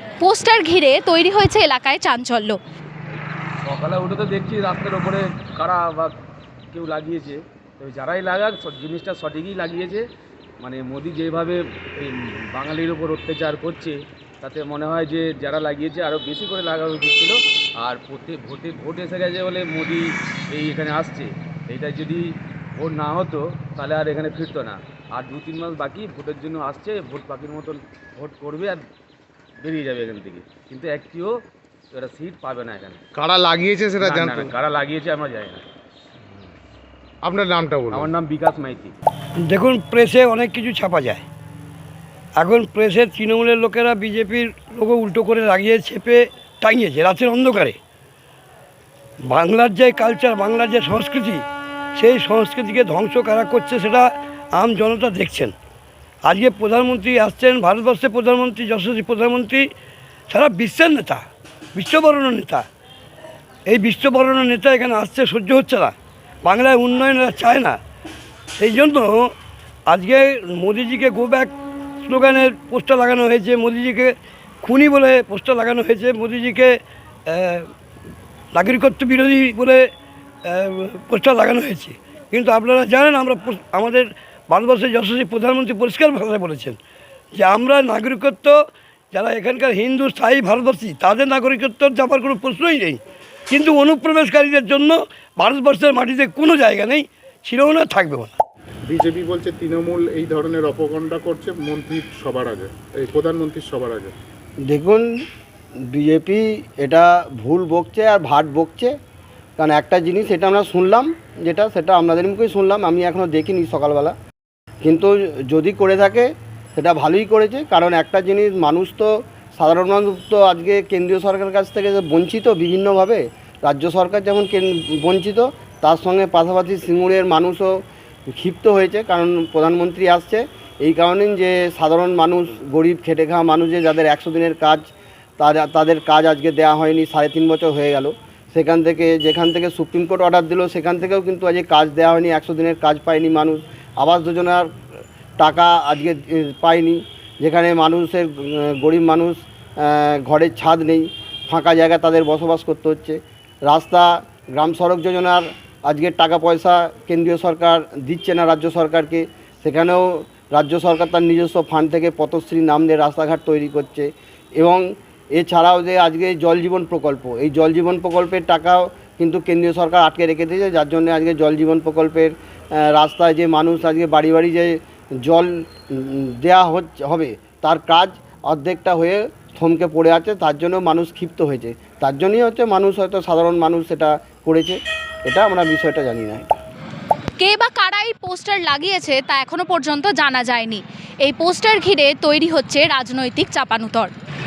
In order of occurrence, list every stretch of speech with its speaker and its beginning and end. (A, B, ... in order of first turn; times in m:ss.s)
0:00.2-0:02.6 A
0:03.6-0:06.1 B
0:06.7-0:10.0 B
0:10.6-0:28.8 B
0:29.6-0:31.4 B
0:31.9-0:33.0 B
0:33.1-0:34.5 C
0:34.0-0:35.6 B
0:37.2-0:38.1 C
0:37.9-0:39.0 B
0:39.4-0:41.2 D
0:42.4-0:47.8 D
0:49.2-0:51.4 D
0:52.0-0:55.5 D
0:56.2-0:59.7 D
1:00.3-1:01.2 D
1:01.7-1:02.6 D
1:03.7-1:07.8 D
1:08.6-1:09.3 D
1:09.9-1:17.7 D
1:18.5-1:19.9 D
1:20.4-1:26.8 D
1:27.3-1:28.6 D
1:29.1-1:38.3 D
1:38.9-1:44.1 E
1:44.6-1:45.1 F
1:45.8-1:48.9 F
1:49.6-1:54.1 F
1:54.8-2:24.7 F
2:25.4-3:06.5 F
3:07.4-3:14.1 A